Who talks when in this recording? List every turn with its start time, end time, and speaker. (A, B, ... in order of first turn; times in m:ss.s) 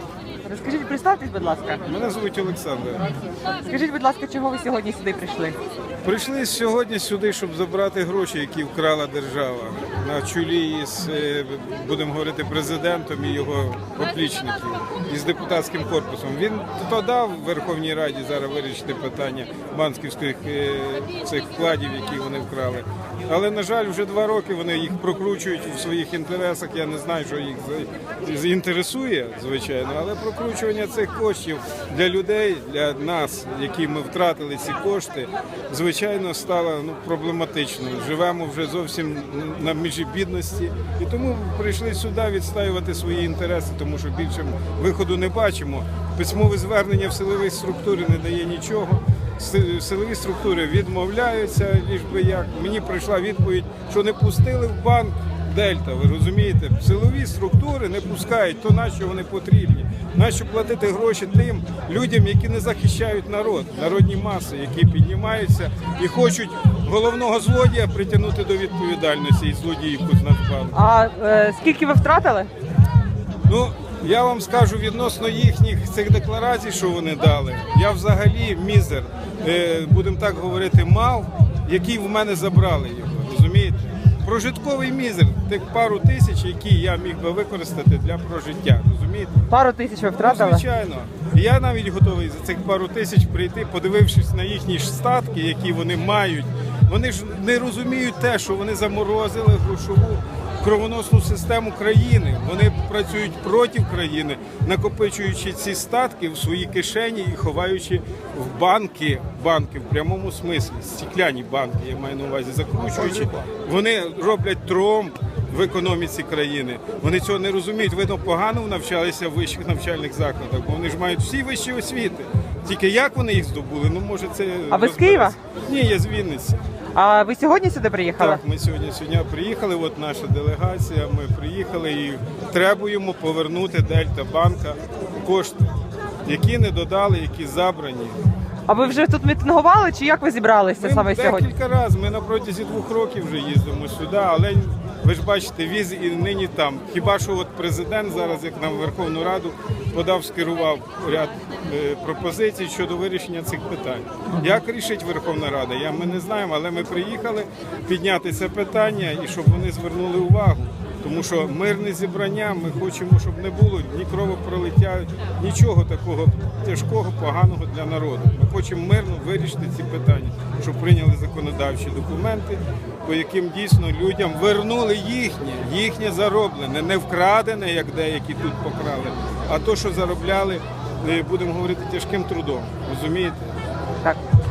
0:00.4-0:01.8 A
0:01.9-0:03.1 B
0:03.6-0:05.6 A
0:06.0-1:10.8 B
1:10.7-1:12.5 A
1:13.5-1:29.4 B
1:29.5-1:30.6 A
1:30.2-2:06.6 B
2:04.7-2:05.4 A
2:07.0-2:08.4 A
2:08.2-2:15.7 B
2:16.2-2:18.2 B
2:18.7-2:21.5 A
2:20.8-3:03.6 B